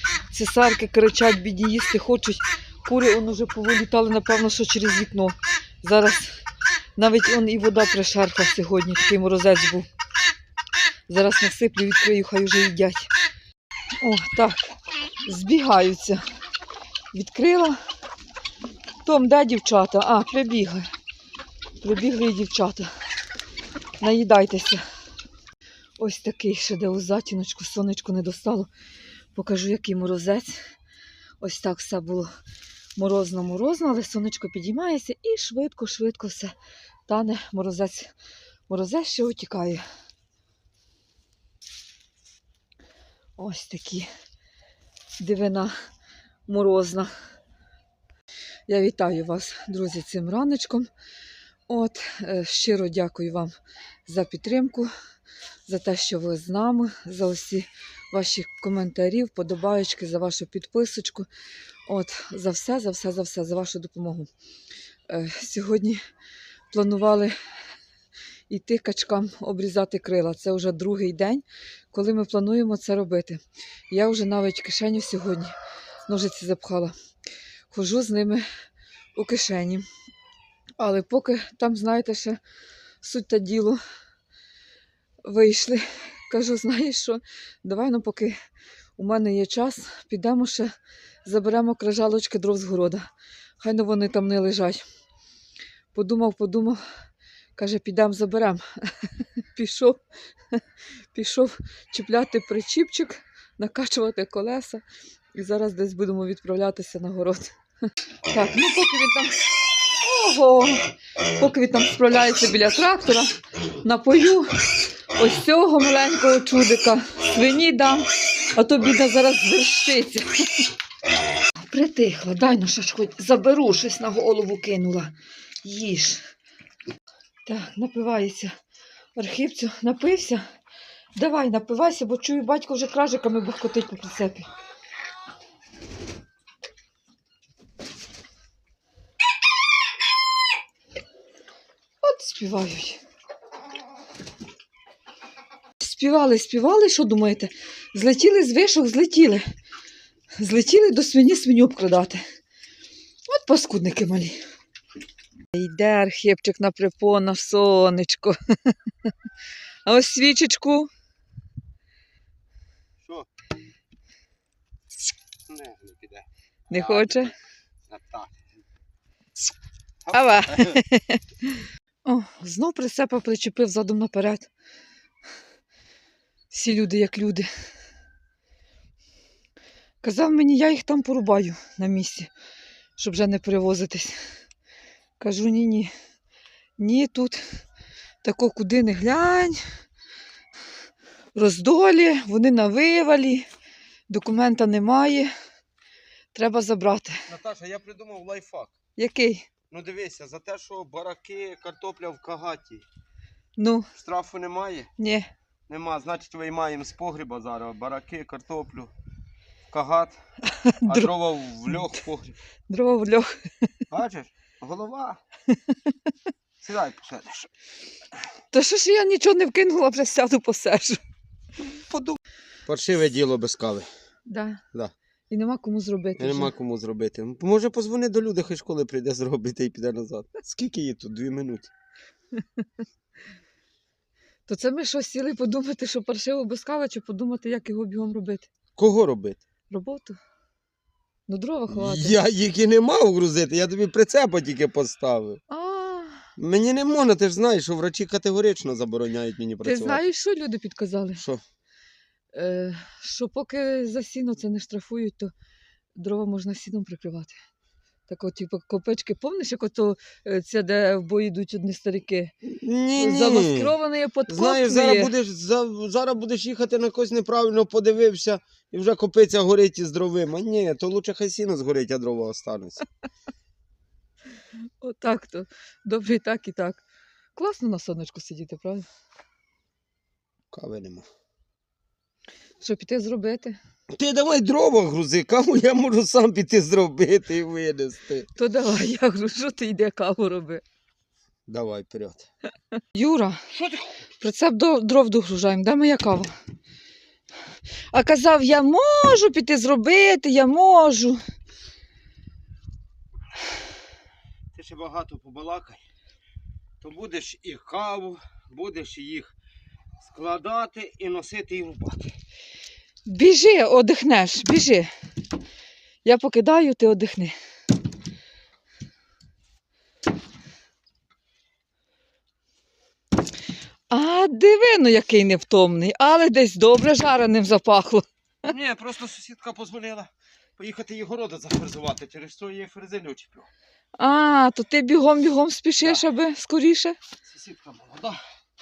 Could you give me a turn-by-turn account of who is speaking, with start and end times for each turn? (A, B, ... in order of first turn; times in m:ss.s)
0:00.3-0:06.4 A
0:07.0-0:09.8 A
0:11.1-0:13.1 A
0:14.0-0:16.2 A
0:17.1-0:17.8 A
0:19.0-0:20.8 A
0:21.8-0:22.9 A
0:24.0-0:24.8 A
0:26.0-0:28.7 A
0:29.3-0:30.6 A
0:31.4-0:32.3 A
0:33.0-0:36.5 A
0:37.1-0:38.1 A
0:38.7-0:39.8 A
0:43.4-0:44.1 A
0:45.2-0:45.7 A
0:46.5-0:47.1 A
0:48.7-0:50.9 A
0:51.7-0:53.5 A
0:54.0-0:54.9 A
0:55.6-1:01.3 A
1:01.9-1:04.3 A
1:05.1-1:06.0 A
1:06.7-1:07.3 A
1:08.5-1:15.5 A
1:16.1-1:16.9 A
1:17.7-1:18.4 A
1:19.1-1:19.8 A
1:20.8-1:22.4 A
1:23.0-1:23.8 A
1:25.2-1:28.3 A
1:29.0-1:30.7 A
1:31.2-1:33.1 A
1:33.6-1:34.8 A
1:35.9-1:36.8 A
1:37.6-1:40.0 A
1:41.1-1:44.8 A
1:45.3-1:47.5 A
1:48.3-1:49.4 A
1:50.0-1:50.8 A
1:51.4-1:53.3 A
1:53.8-1:54.5 A
1:55.2-2:00.6 A
2:01.6-2:05.1 A
2:05.6-2:06.3 A
2:07.4-2:08.5 A
2:09.2-2:10.4 A
2:11.1-2:14.5 A
2:22.0-2:23.0 A
2:25.8-2:29.4 A
2:30.4-2:32.2 A
2:33.3-2:34.4 A
2:35.5-2:39.1 A
2:39.8-2:40.9 A
2:43.0-2:43.3 B
2:45.5-2:48.6 B
2:46.7-2:47.3 A
2:50.0-2:50.8 B
2:50.1-2:54.5 A
2:56.5-2:57.5 A
3:00.0-3:02.3 A
3:03.0-3:04.2 A
3:05.2-3:05.9 A
3:06.8-3:07.4 A
3:08.2-3:09.6 A
3:11.3-3:13.4 A
3:14.1-3:15.3 A
3:16.3-3:17.2 A
3:17.3-3:18.7 B
3:19.0-3:19.5 A
3:19.7-3:22.8 B
3:23.6-3:23.9 A
3:24.0-3:24.9 B
3:25.0-3:25.3 A
3:25.7-3:28.9 B
3:29.7-3:30.2 B
3:30.4-3:31.1 A
3:30.8-3:32.3 B
3:32.7-3:33.7 A
3:33.9-3:35.2 B
3:36.6-3:37.5 B
3:38.5-3:41.0 A
3:41.7-3:43.9 B
3:44.3-3:44.6 A
3:45.3-3:46.5 A
3:46.2-3:51.7 B
3:54.5-3:58.5 A
3:58.8-3:59.4 B
3:59.7-4:00.2 A
4:01.3-4:02.2 A
4:01.7-4:05.4 B
4:05.5-4:06.2 A
4:06.4-4:10.0 B
4:09.6-4:11.2 A
4:12.3-4:15.3 A
4:16.0-4:17.3 A
4:18.1-4:22.3 A
4:22.4-4:23.7 B
4:23.0-4:25.1 A
4:24.3-4:32.8 B
4:34.8-4:36.8 A
4:37.4-4:38.9 A
4:40.5-4:41.0 B
4:42.6-4:43.6 A
4:43.9-4:48.3 B
4:48.3-4:50.6 A
4:51.5-4:52.3 B
4:52.9-4:53.4 A
4:53.5-4:53.9 B
4:54.2-4:56.3 A
4:57.9-5:01.2 A
5:04.5-5:05.8 B
5:06.8-5:09.3 B
5:10.0-5:12.1 B
5:13.0-5:14.9 A
5:16.0-5:17.3 A
5:23.9-5:28.0 A
5:28.5-5:33.5 B
5:34.0-5:37.0 A
5:37.2-5:38.2 B